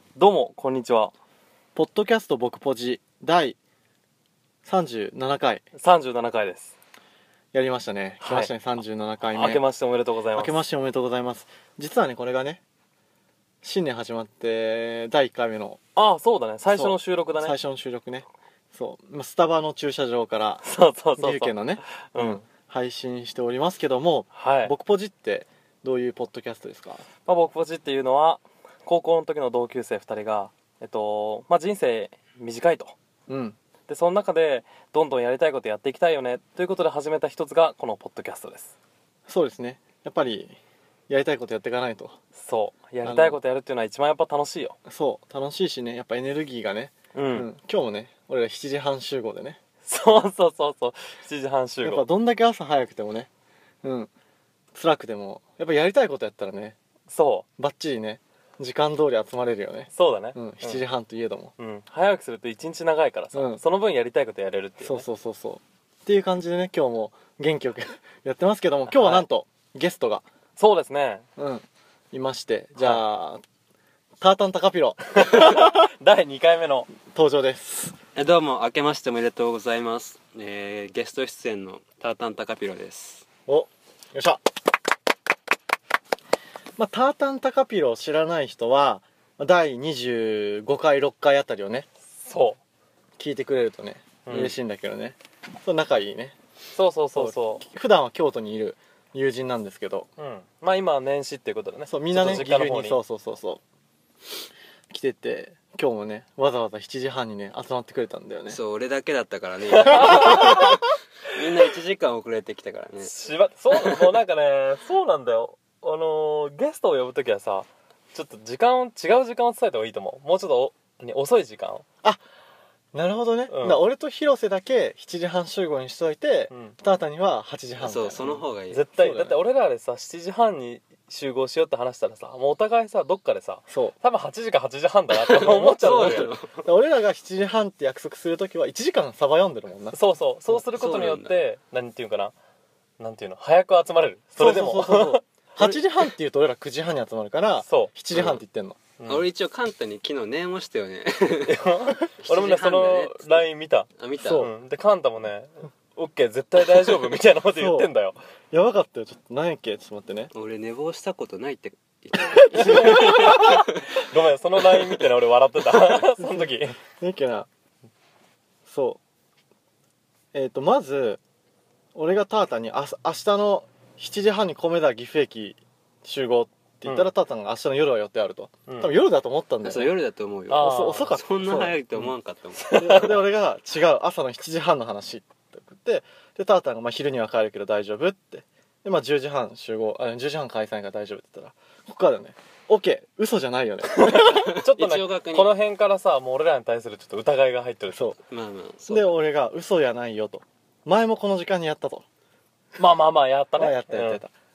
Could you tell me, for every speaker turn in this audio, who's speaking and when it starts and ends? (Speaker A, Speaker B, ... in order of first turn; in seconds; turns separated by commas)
Speaker A: 0.1-1.1, Speaker B: 1.7-3.6, Speaker B: 4.6-5.6, Speaker A: 5.7-6.7, Speaker B: 7.5-9.6, Speaker A: 8.2-8.6, Speaker A: 9.2-10.6, Speaker B: 10.3-12.6, Speaker B: 13.6-15.8, Speaker A: 15.9-17.6, Speaker B: 16.6-20.6, Speaker A: 20.6-22.4, Speaker B: 21.2-27.0, Speaker A: 24.3-24.7, Speaker A: 27.2-32.9, Speaker B: 33.3-33.6, Speaker A: 33.9-38.7, Speaker B: 39.3-40.6, Speaker B: 41.1-42.1, Speaker A: 42.3-44.8, Speaker B: 43.0-43.4, Speaker B: 44.9-49.6, Speaker A: 47.1-47.5, Speaker A: 49.8-52.0, Speaker B: 51.8-53.3, Speaker B: 53.8-54.1, Speaker B: 54.7-56.8, Speaker A: 57.1-57.5, Speaker B: 57.6-61.5, Speaker A: 59.9-60.8, Speaker A: 61.6-65.1, Speaker B: 63.3-63.6, Speaker B: 64.8-70.2, Speaker A: 68.9-69.3, Speaker A: 70.6-71.2, Speaker B: 71.4-73.4, Speaker A: 72.8-73.0, Speaker B: 74.2-75.9, Speaker A: 75.2-76.9, Speaker B: 77.1-78.0, Speaker C: 78.1-83.2, Speaker B: 83.5-84.4, Speaker B: 86.8-91.9, Speaker A: 92.2-92.6, Speaker B: 93.2-96.3, Speaker A: 94.2-94.6, Speaker A: 96.7-97.6, Speaker B: 97.1-100.1, Speaker A: 100.2-103.0, Speaker B: 101.8-103.6, Speaker C: 102.2-102.5, Speaker B: 104.9-108.6, Speaker C: 108.5-113.1, Speaker A: 109.7-110.8, Speaker A: 113.0-121.8, Speaker C: 113.7-114.1, Speaker B: 122.9-129.4, Speaker A: 123.5-123.8, Speaker A: 126.5-126.8, Speaker C: 127.8-128.8, Speaker A: 128.3-136.3, Speaker B: 133.7-133.9, Speaker C: 135.1-136.7, Speaker B: 135.8-140.0, Speaker A: 139.9-142.3, Speaker C: 140.5-141.4, Speaker A: 143.0-146.0, Speaker B: 144.3-148.8, Speaker A: 147.6-147.9, Speaker C: 148.1-148.4, Speaker A: 149.0-149.3, Speaker C: 149.1-153.4, Speaker A: 151.4-158.2, Speaker C: 154.0-154.5, Speaker B: 154.2-154.5, Speaker B: 157.5-157.9, Speaker B: 158.5-160.3, Speaker C: 160.3-164.0, Speaker B: 162.4-163.6, Speaker A: 162.5-166.8, Speaker B: 165.9-167.5, Speaker B: 168.7-169.0, Speaker B: 170.3-171.2, Speaker B: 171.9-180.0, Speaker A: 176.8-177.1, Speaker A: 178.7-178.9, Speaker C: 179.6-183.2, Speaker A: 180.5-181.2, Speaker B: 180.6-181.8, Speaker A: 182.6-183.2, Speaker B: 182.7-194.5, Speaker A: 193.9-198.2, Speaker C: 194.0-195.6, Speaker B: 197.9-198.2, Speaker C: 198.3-199.2, Speaker B: 198.9-202.0, Speaker A: 202.8-204.2, Speaker B: 203.5-204.3